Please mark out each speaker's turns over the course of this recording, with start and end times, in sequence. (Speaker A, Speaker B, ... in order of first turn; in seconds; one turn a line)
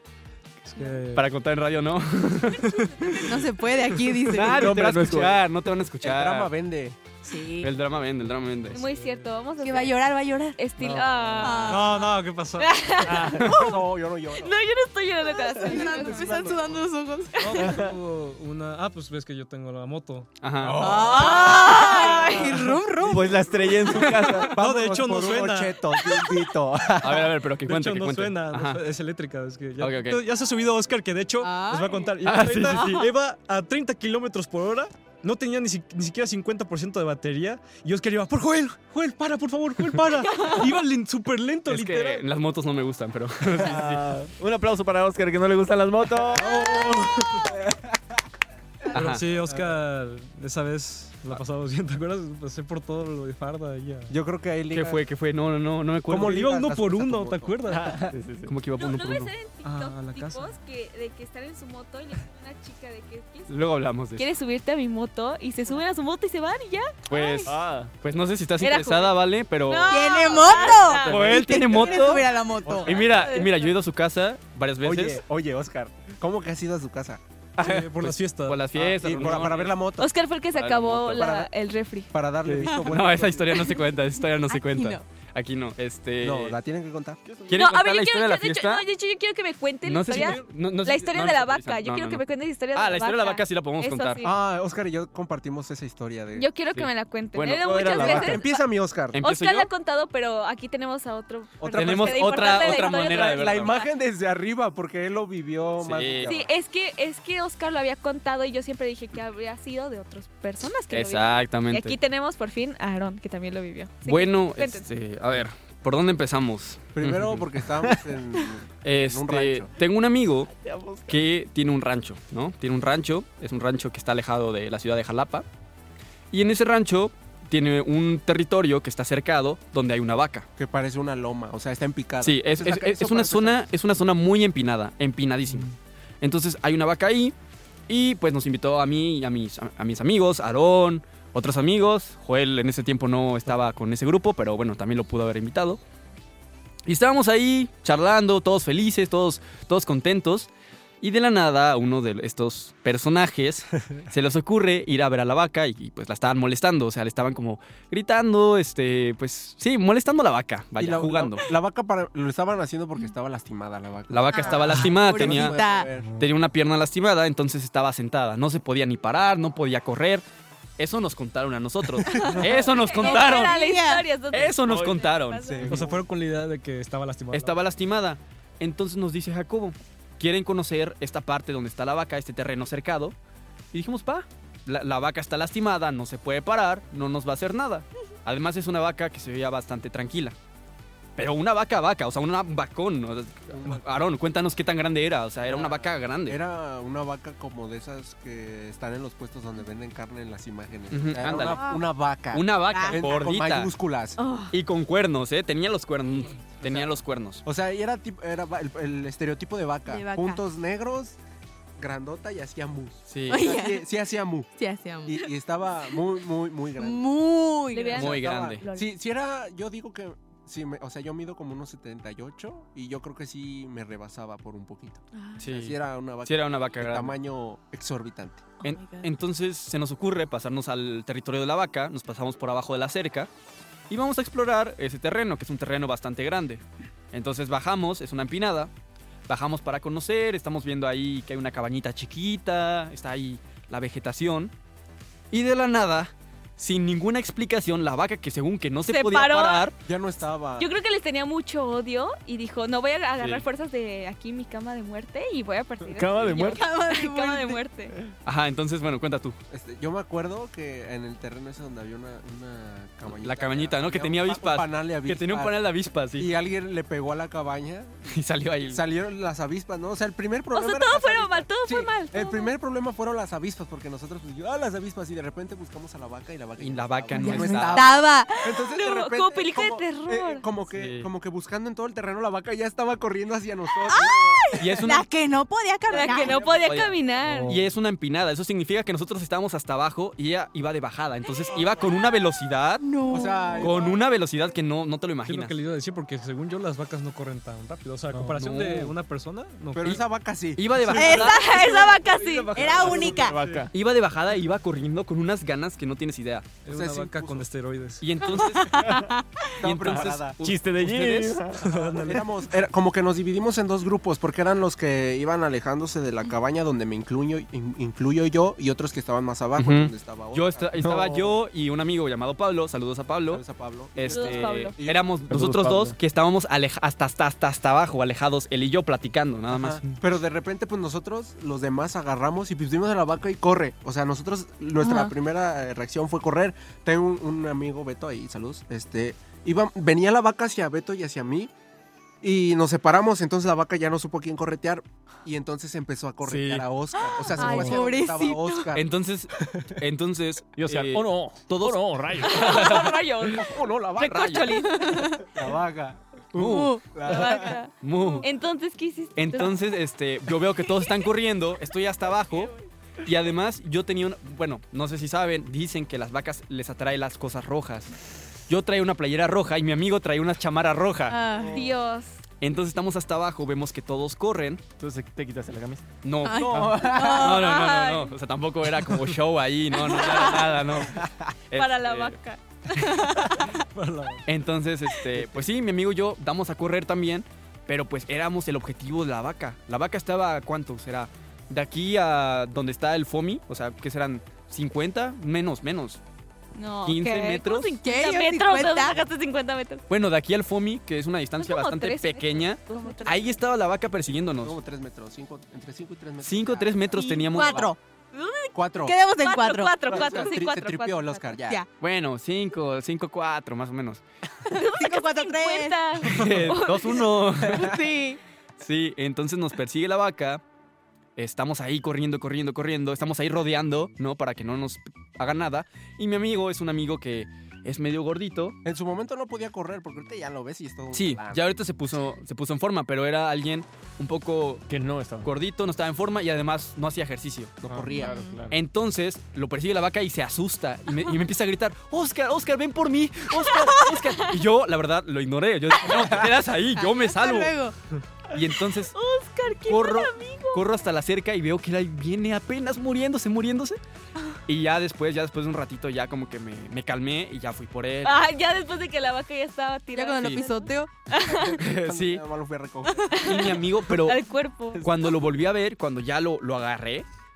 Speaker A: 0.6-1.3
Speaker B: 1.1-3.1
Speaker C: 2.5-3.4
Speaker D: 3.2-4.7
Speaker B: 4.3-6.5
Speaker E: 4.3-5.4
Speaker F: 6.0-7.0
Speaker D: 7.2-7.7
Speaker B: 7.6-8.8
Speaker A: 8.7-9.3
Speaker C: 8.7-10.0
Speaker D: 9.6-10.6
Speaker C: 10.6-11.9
Speaker E: 10.8-11.3
Speaker D: 11.4-12.2
Speaker A: 11.6-12.9
Speaker C: 12.6-13.5
Speaker E: 13.0-13.7
Speaker F: 13.4-14.6
Speaker C: 14.4-16.4
Speaker D: 15.6-17.7
Speaker F: 15.6-16.8
Speaker A: 17.4-20.3
Speaker E: 17.6-17.9
Speaker B: 20.4-21.3
Speaker F: 20.6-21.3
Speaker D: 20.8-23.3
Speaker C: 20.9-22.5
Speaker F: 22.0-27.3
Speaker A: 22.5-22.9
Speaker E: 23.0-24.6
Speaker B: 23.9-24.5
Speaker A: 24.5-25.9
Speaker B: 27.0-28.8
Speaker A: 27.6-42.2
Speaker B: 29.8-30.2
Speaker D: 31.4-32.1
Speaker B: 32.2-33.1
Speaker B: 41.7-44.1
Speaker E: 43.5-47.5
Speaker F: 46.4-47.9
Speaker A: 46.7-47.2
Speaker B: 48.9-49.2
Speaker A: 48.9-54.1
Speaker F: 54.1-55.0
Speaker B: 54.7-56.5
Speaker F: 56.1-58.1
Speaker A: 56.2-58.0
Speaker E: 57.7-58.5
Speaker B: 58.4-59.3
Speaker C: 58.8-63.6
Speaker A: 59.6-60.5
Speaker B: 63.5-64.3
Speaker C: 64.1-67.5
Speaker B: 67.1-75.2
Speaker E: 67.5-67.9
Speaker C: 68.6-71.2
Speaker D: 69.9-73.0
Speaker E: 71.1-71.5
Speaker C: 72.8-73.7
Speaker F: 74.8-77.2
Speaker B: 77.6-79.8
Speaker A: 77.6-78.6
Speaker F: 78.7-80.1
Speaker C: 80.0-82.1
Speaker B: 80.5-81.3
Speaker F: 81.1-81.5
Speaker F: 82.1-83.8
Speaker B: 82.9-86.6
Speaker D: 84.5-85.0
Speaker F: 86.2-87.2
Speaker E: 87.2-87.6
Speaker B: 87.5-88.8
Speaker C: 87.5-94.3
Speaker B: 89.8-94.2
Speaker A: 90.2-90.4
Speaker F: 94.2-96.5
Speaker C: 96.3-98.6
Speaker B: 96.7-98.4
Speaker F: 97.7-99.2
Speaker B: 99.1-99.7
Speaker C: 99.2-103.9
Speaker F: 101.6-106.5
Speaker B: 101.7-103.8
Speaker B: 105.8-106.3
Speaker C: 106.2-114.8
Speaker B: 110.9-112.0
Speaker B: 114.0-117.5
Speaker F: 117.0-119.7
Speaker B: 118.8-120.5
Speaker E: 120.5-121.2
Speaker B: 121.1-125.4
Speaker B: 126.3-130.4
Speaker F: 130.6-133.7
Speaker B: 132.2-135.7
Speaker B: 136.2-137.3
Speaker B: 137.9-145.8
Speaker B: 146.8-150.5
Speaker B: 151.0-161.5
Speaker F: 160.8-166.2
Speaker B: 164.1-165.6
Speaker D: 164.3-165.9
Speaker B: 166.2-170.2
Speaker B: 170.8-173.5
Speaker F: 172.1-172.6
Speaker D: 172.1-172.4
Speaker C: 172.5-175.7
Speaker D: 172.9-174.1
Speaker B: 174.3-175.7
Speaker E: 174.7-175.1
Speaker F: 175.4-176.1
Speaker A: 175.7-177.6
Speaker B: 177.3-183.2
Speaker B: 183.7-190.3
Speaker B: 191.2-196.4
Speaker F: 193.5-193.8
Speaker F: 195.4-204.2
Speaker B: 200.9-201.7
Speaker D: 201.3-201.8
Speaker B: 202.3-203.7
Speaker D: 202.7-203.0
Speaker D: 204.2-204.5
Speaker B: 204.5-207.4
Speaker F: 206.6-211.2
Speaker D: 209.9-210.4
Speaker F: 211.8-214.5
Speaker B: 213.1-213.5
Speaker D: 213.3-213.9
Speaker D: 214.6-215.3
Speaker F: 215.0-217.2
Speaker D: 216.8-218.1
Speaker C: 217.7-218.9
Speaker F: 217.9-228.5
Speaker B: 218.0-218.6
Speaker D: 225.1-225.4
Speaker B: 225.4-227.2
Speaker D: 228.6-229.1
Speaker B: 228.6-233.3
Speaker B: 233.9-238.7
Speaker B: 239.3-244.5
Speaker B: 245.3-249.8
Speaker C: 248.9-249.7
Speaker F: 249.8-250.7
Speaker C: 250.6-257.9
Speaker B: 253.2-253.4
Speaker E: 255.9-256.6
Speaker D: 256.4-257.6
Speaker B: 258.2-259.4
Speaker F: 259.5-265.6
Speaker B: 263.1-266.3
Speaker F: 266.2-268.1
Speaker B: 268.1-268.8
Speaker F: 268.6-285.0
Speaker C: 270.5-272.5
Speaker B: 276.6-277.9
Speaker D: 277.1-278.4
Speaker C: 278.6-280.4
Speaker B: 280.7-281.1
Speaker D: 283.8-286.4
Speaker B: 284.6-285.1
Speaker C: 285.9-287.5
Speaker F: 285.9-286.7
Speaker B: 286.4-292.9
Speaker D: 292.8-293.8
Speaker F: 293.1-294.0
Speaker B: 293.6-295.5
Speaker A: 295.2-300.0
Speaker E: 298.1-298.4
Speaker B: 298.4-298.9
Speaker F: 299.7-301.4
Speaker B: 300.6-301.4
Speaker D: 300.9-301.8
Speaker C: 301.1-302.5
Speaker A: 301.5-302.0
Speaker F: 302.2-303.2
Speaker D: 302.5-303.4
Speaker A: 302.6-303.7
Speaker E: 302.6-303.7
Speaker B: 303.7-306.6
Speaker A: 306.6-308.0
Speaker F: 306.7-307.5
Speaker B: 308.0-308.8
Speaker D: 308.2-309.5
Speaker E: 308.8-309.1
Speaker F: 309.6-310.3
Speaker B: 309.6-311.4
Speaker E: 309.9-311.7
Speaker A: 311.6-312.3
Speaker F: 311.7-320.9
Speaker B: 319.6-323.4
Speaker E: 320.8-321.4
Speaker F: 323.3-325.1
Speaker B: 323.9-330.0
Speaker C: 324.1-324.7
Speaker E: 325.3-326.0
Speaker F: 329.5-341.5
Speaker D: 334.8-335.1
Speaker F: 342.2-348.9
Speaker B: 346.2-346.6
Speaker D: 347.1-348.7
Speaker E: 347.4-347.8
Speaker B: 348.7-353.0
Speaker F: 349.4-349.7
Speaker E: 350.6-352.6
Speaker C: 352.2-355.2
Speaker F: 353.4-357.6
Speaker B: 354.0-354.6
Speaker D: 354.7-355.3
Speaker B: 356.3-356.9
Speaker D: 356.4-358.2
Speaker C: 357.0-359.6
Speaker B: 357.8-358.3
Speaker B: 359.2-362.5
Speaker B: 363.0-367.9
Speaker B: 368.5-371.2
Speaker D: 371.1-371.6
Speaker C: 371.5-372.2
Speaker B: 372.4-374.6
Speaker E: 374.8-375.9
Speaker B: 376.0-382.2
Speaker D: 376.2-377.5
Speaker F: 376.4-377.3
Speaker C: 377.1-378.1
Speaker C: 379.7-380.4
Speaker F: 380.8-381.2
Speaker C: 381.5-383.1
Speaker B: 382.8-383.3
Speaker D: 382.9-383.3
Speaker A: 383.7-384.2
Speaker B: 384.2-396.0
Speaker C: 396.5-399.8
Speaker B: 396.8-397.8
Speaker D: 397.8-399.0
Speaker B: 399.9-404.6
Speaker C: 401.4-403.4
Speaker D: 402.8-403.2
Speaker F: 404.4-407.7
Speaker B: 406.2-407.7
Speaker D: 407.0-407.8
Speaker C: 408.1-408.6
Speaker F: 408.5-409.0
Speaker D: 408.8-410.4
Speaker C: 409.1-411.4
Speaker F: 409.8-411.6
Speaker B: 411.8-414.0
Speaker D: 414.4-415.9
Speaker C: 414.5-417.0
Speaker B: 416.0-417.7
Speaker D: 417.4-418.2
Speaker F: 417.5-417.8
Speaker B: 418.6-420.4
Speaker B: 421.2-428.6
Speaker F: 428.6-431.4
Speaker B: 430.9-434.6
Speaker E: 434.7-435.3
Speaker B: 435.2-437.5
Speaker F: 437.6-438.1
Speaker E: 437.7-438.5
Speaker D: 437.9-438.4
Speaker B: 438.5-447.6
Speaker D: 446.8-447.7
Speaker B: 448.3-448.9
Speaker C: 448.9-450.8
Speaker B: 449.7-453.8
Speaker B: 454.5-458.2
Speaker C: 458.0-461.6
Speaker D: 459.9-460.9
Speaker F: 461.3-463.6
Speaker B: 461.6-462.2
Speaker C: 463.1-464.8
Speaker B: 463.2-464.2
Speaker E: 464.7-465.2
Speaker B: 464.8-467.1